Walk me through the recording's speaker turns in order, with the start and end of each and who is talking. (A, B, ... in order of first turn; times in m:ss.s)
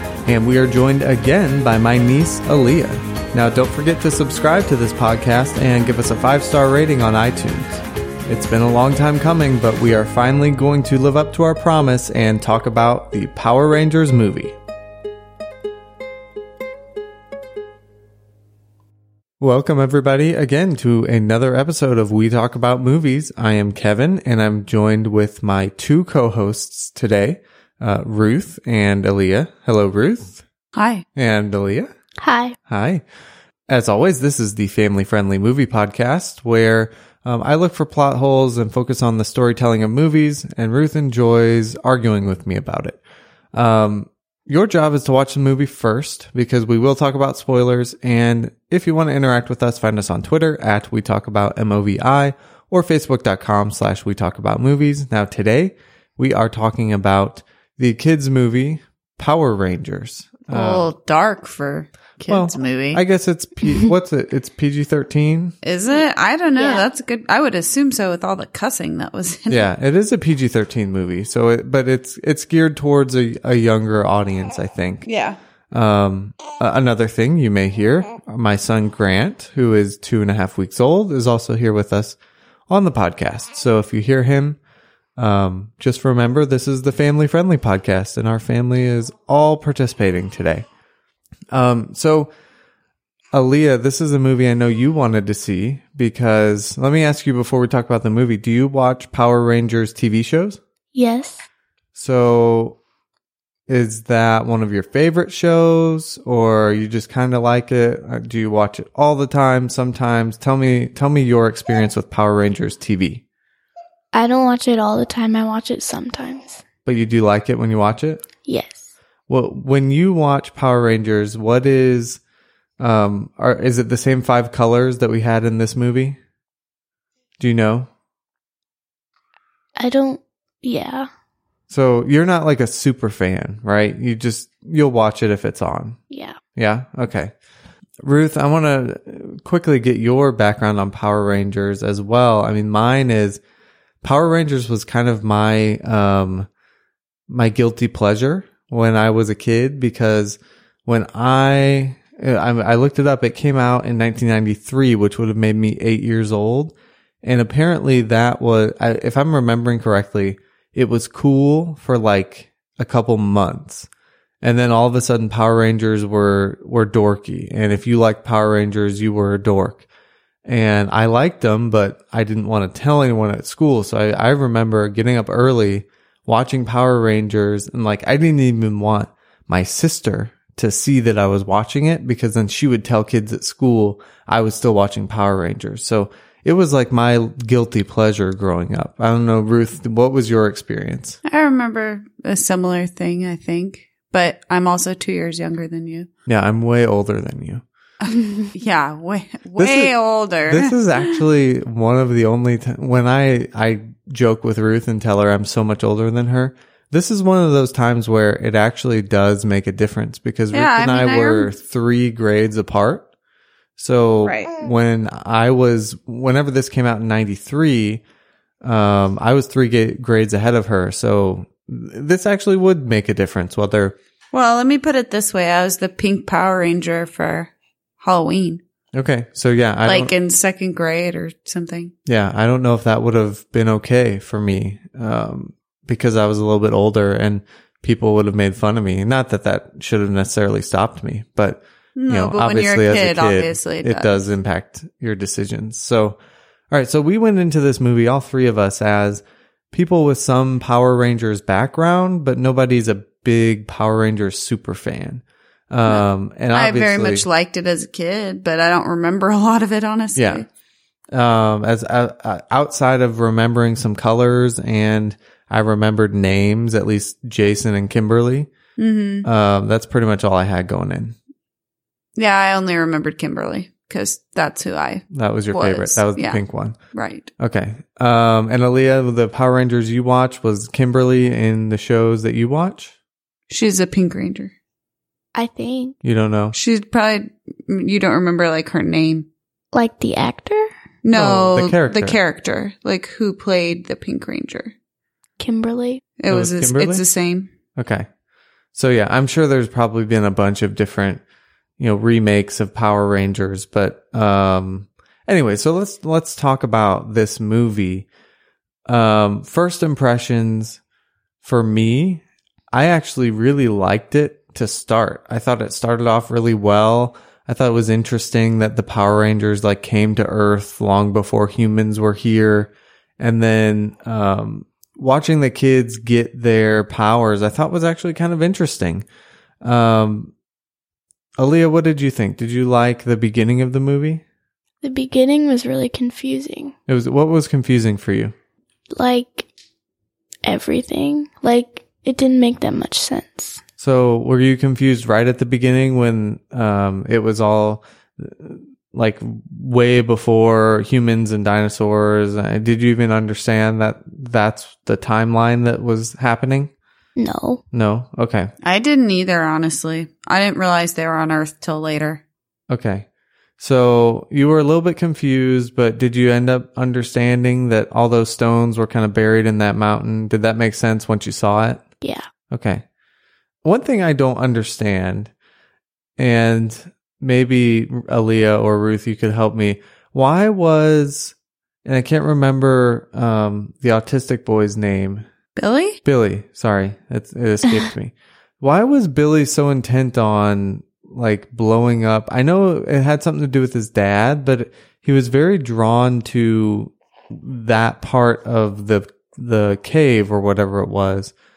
0:00.2-0:14.6 A
0:19.4-0:30.4 A
0:30.7-0:31.0 B
0:31.1-0:31.9 A
0:32.2-0:32.5 C
0:32.7-0:33.0 A
0:33.7-0:43.0 A
0:43.5-1:00.9 A
1:00.5-1:03.0 B
1:02.3-1:05.6 A
1:05.6-1:09.7 B
1:06.6-1:06.8 C
1:09.5-1:15.1 A
1:15.0-1:15.4 B
1:15.7-1:22.2 A
1:22.7-1:24.6 A
1:25.2-1:30.6 A
1:31.5-1:32.3 A
1:33.3-1:40.6 A
1:40.9-1:41.4 C
1:41.9-1:42.8 A
1:43.7-1:53.2 A
1:54.1-1:56.6 C
1:56.8-1:58.2 A
1:58.4-1:58.9 C
1:59.3-2:02.2 A
2:02.8-2:06.2 A
2:07.4-2:07.9 A
2:09.8-2:11.1 C
2:11.7-2:16.0 A
2:16.1-2:16.4 C
2:16.5-2:17.3 A
2:18.0-2:23.4 A
2:24.0-2:26.5 A
2:27.3-2:43.9 A
2:44.4-2:49.8 A
2:50.4-3:11.2 A
3:11.2-3:16.1 B
3:16.3-3:17.6 A
3:18.0-3:21.2 B
3:19.6-3:19.9 A
3:20.4-3:33.0 A
3:30.5-3:31.5 B
3:33.8-3:38.0 A
3:34.2-3:34.5 B
3:38.6-3:43.9 A
3:44.3-3:48.6 B
3:48.9-3:50.1 A
3:49.8-3:51.9 B
3:52.0-4:06.2 A
4:02.0-4:04.3 B
4:06.7-4:17.2 A
4:15.8-4:20.5 B
4:20.1-4:20.4 A
4:21.1-4:28.5 A
4:28.8-4:29.3 B
4:29.2-4:31.2 A
4:32.2-4:36.4 B
4:35.1-4:36.8 A
4:36.9-4:37.3 B
4:37.4-4:42.9 A
4:43.5-4:44.5 B
4:45.3-4:46.0 C
4:46.0-4:46.6 A
4:46.5-4:49.3 B
4:49.7-4:50.7 C
4:51.0-4:54.7 B
4:51.1-4:52.2 A
4:55.4-4:56.0 C
4:56.2-4:57.5 B
4:56.3-4:57.0 A
4:57.8-4:58.1 A
4:58.7-5:01.2 A
5:01.8-5:08.1 A
5:08.9-5:10.8 A
5:11.4-5:29.0 A
5:29.6-5:30.3 A
5:31.4-5:34.2 A
5:34.8-5:36.7 C
5:36.9-5:38.3 A
5:38.9-5:39.5 C
5:40.4-5:43.6 C
5:43.8-5:56.7 A
5:57.2-5:57.6 C
5:57.7-5:58.5 A
5:58.6-6:02.2 B
6:02.7-6:03.0 A
6:03.6-6:11.8 A
6:12.0-6:12.2 C
6:12.5-6:12.8 A
6:13.6-6:15.3 A
6:16.2-6:25.3 A
6:25.6-6:26.0 B
6:26.0-6:41.3 A